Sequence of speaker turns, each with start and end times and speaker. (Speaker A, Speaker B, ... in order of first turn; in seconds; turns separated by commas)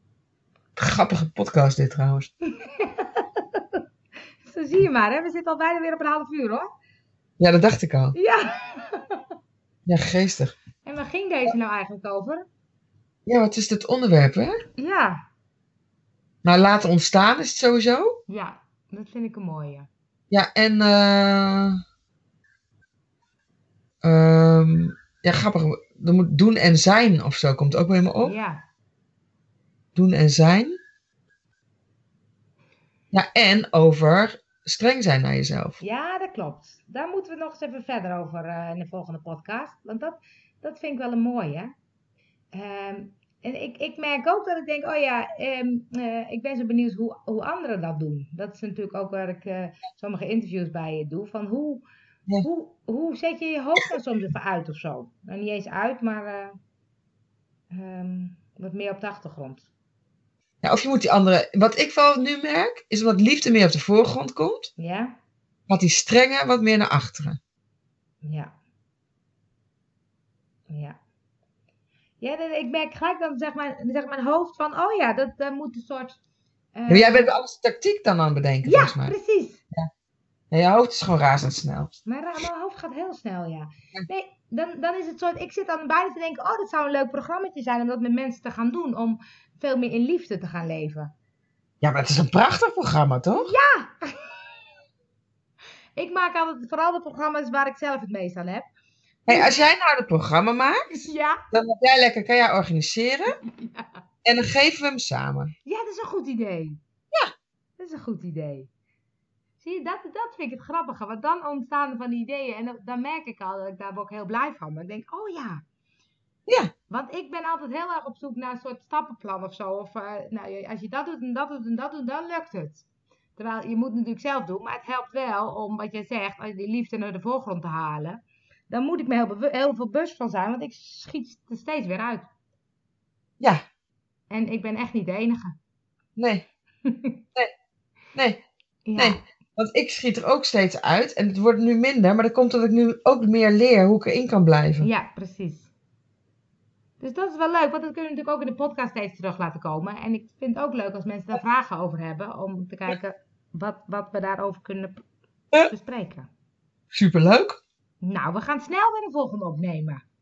Speaker A: 0.8-2.3, Speaker B: 2.6-3.8, Speaker B: 4.4-6.7, Speaker A: 7.4-8.2, Speaker B: 8.1-9.2, Speaker A: 9.8-10.5, Speaker B: 10.8-12.4, Speaker A: 13.2-14.6, Speaker B: 14.8-15.2, Speaker A: 16.4-18.2, Speaker B: 18.3-19.9, Speaker A: 20.3-21.8, Speaker A: 24.0-28.4, Speaker B: 28.2-28.6, Speaker A: 29.9-30.7, Speaker A: 33.1-35.8, Speaker B: 35.8-41.7, Speaker B: 42.5-51.8, Speaker B: 52.4-56.5, Speaker B: 57.7-59.7, Speaker A: 60.6-64.7, Speaker B: 64.8-65.2, Speaker A: 65.7-67.4, Speaker B: 68.2-68.5, Speaker B: 70.7-71.0, Speaker B: 72.2-76.2, Speaker B: 76.8-77.3, Speaker A: 76.9-79.1, Speaker B: 78.6-79.6, Speaker A: 80.5-81.9, Speaker B: 82.0-91.1, Speaker A: 91.8-93.5, Speaker B: 93.3-94.3, Speaker B: 96.0-98.7, Speaker A: 99.3-103.3, Speaker B: 99.3-99.5, Speaker B: 100.9-101.4, Speaker B: 103.5-104.0, Speaker A: 104.2-105.5, Speaker B: 105.7-106.8, Speaker B: 107.8-108.7, Speaker B: 109.6-115.6, Speaker B: 116.9-122.8, Speaker B: 123.4-132.3, Speaker B: 134.3-135.6, Speaker A: 136.2-136.4, Speaker B: 136.8-137.2, Speaker A: 138.1-138.4, Speaker B: 138.8-139.2, Speaker A: 138.9-144.9, Speaker B: 144.8-145.7, Speaker B: 147.0-155.0, Speaker B: 155.7-156.3, Speaker A: 156.9-157.6, Speaker B: 158.0-160.0